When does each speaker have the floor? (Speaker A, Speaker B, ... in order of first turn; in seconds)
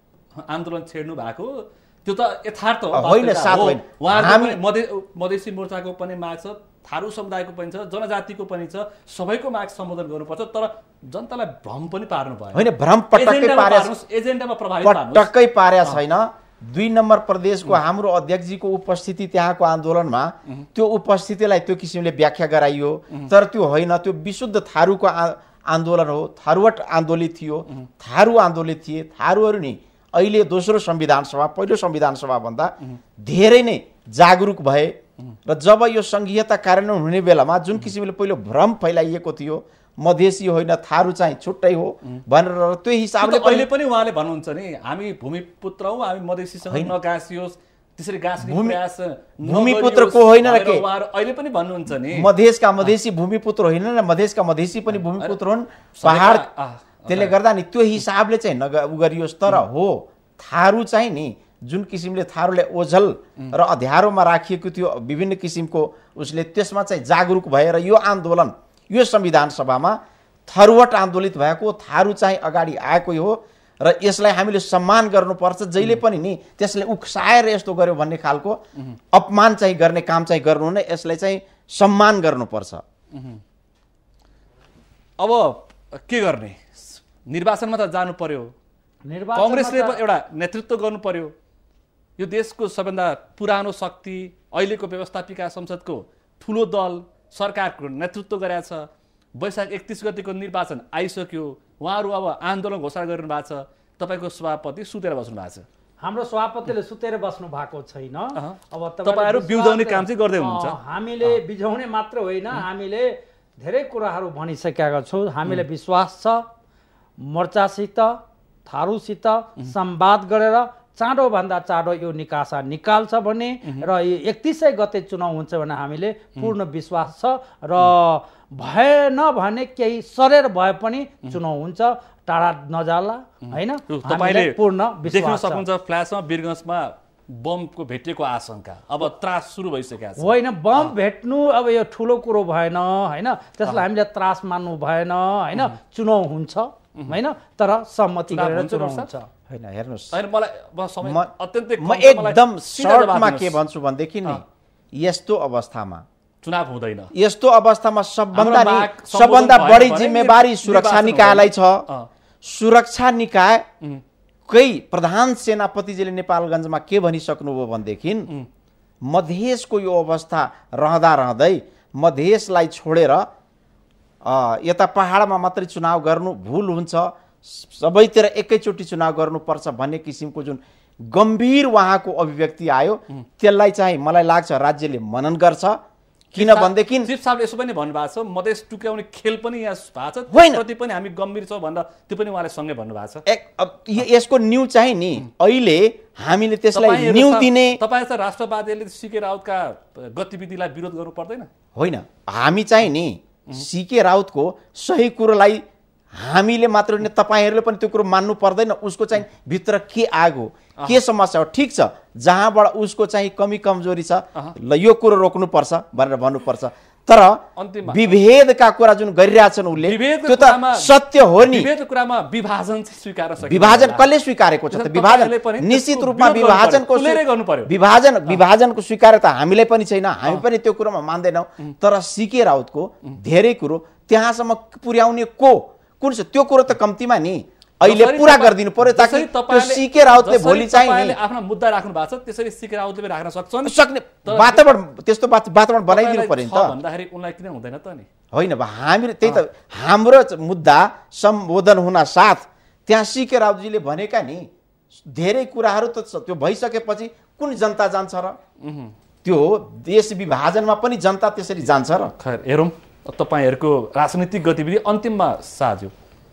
Speaker A: 0.3-15.3, 43.2-52.3, 55.1-55.4, 56.0-57.3, 83.1-83.4, 85.2-88.5, 89.3-91.3, 92.2-105.7, 108.3-111.4, 133.4-140.9, 148.3-149.1, 150.1-153.6, 156.4-157.1, 158.3-162.1, 186.3-193.2, 196.7-201.5, 217.6-218.2, 219.8-224.1, 224.7-227.7, 237.8-244.6, 245.9-248.1, 258.6-258.9, 262.1-265.9
Speaker B: 2.9-4.6, 12.5-13.9, 14.8-34.9, 35.5-43.7, 46.6-46.9, 48.4-48.8, 49.4-50.9, 52.0-56.5, 57.1-82.8, 149.5-150.2, 151.0-156.0, 157.1-161.8, 162.4-163.7, 164.5-168.3, 169.0-173.3, 174.2-185.8, 186.3-187.1, 190.3-190.6, 193.2-197.8, 201.7-221.7, 223.4-241.2, 243.6-246.7, 248.3-258.4, 259.2-262.1
Speaker C: 89.0-90.0, 106.0-116.4, 117.2-135.6, 140.2-149.3